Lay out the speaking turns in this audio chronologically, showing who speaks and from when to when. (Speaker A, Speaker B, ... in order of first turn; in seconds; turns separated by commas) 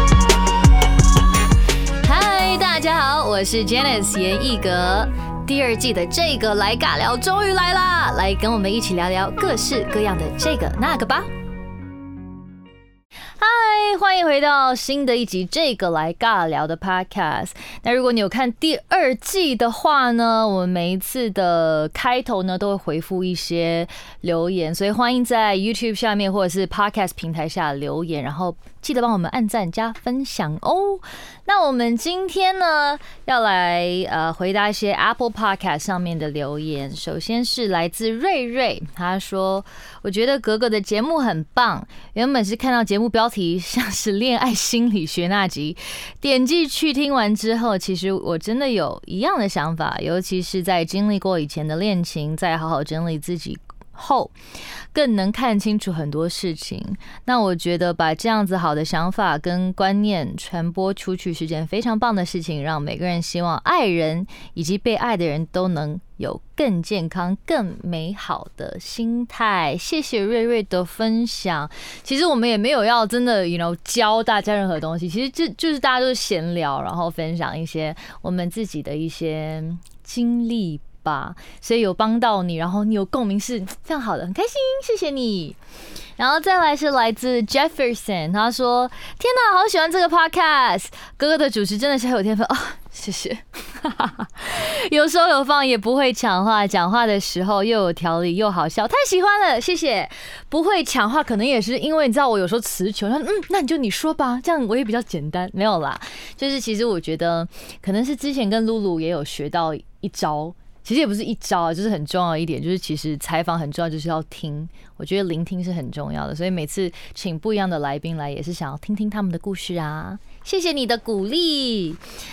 Speaker A: 2.0-11.3, Speaker A: 13.4-54.3, Speaker A: 54.9-85.6, Speaker A: 86.2-122.0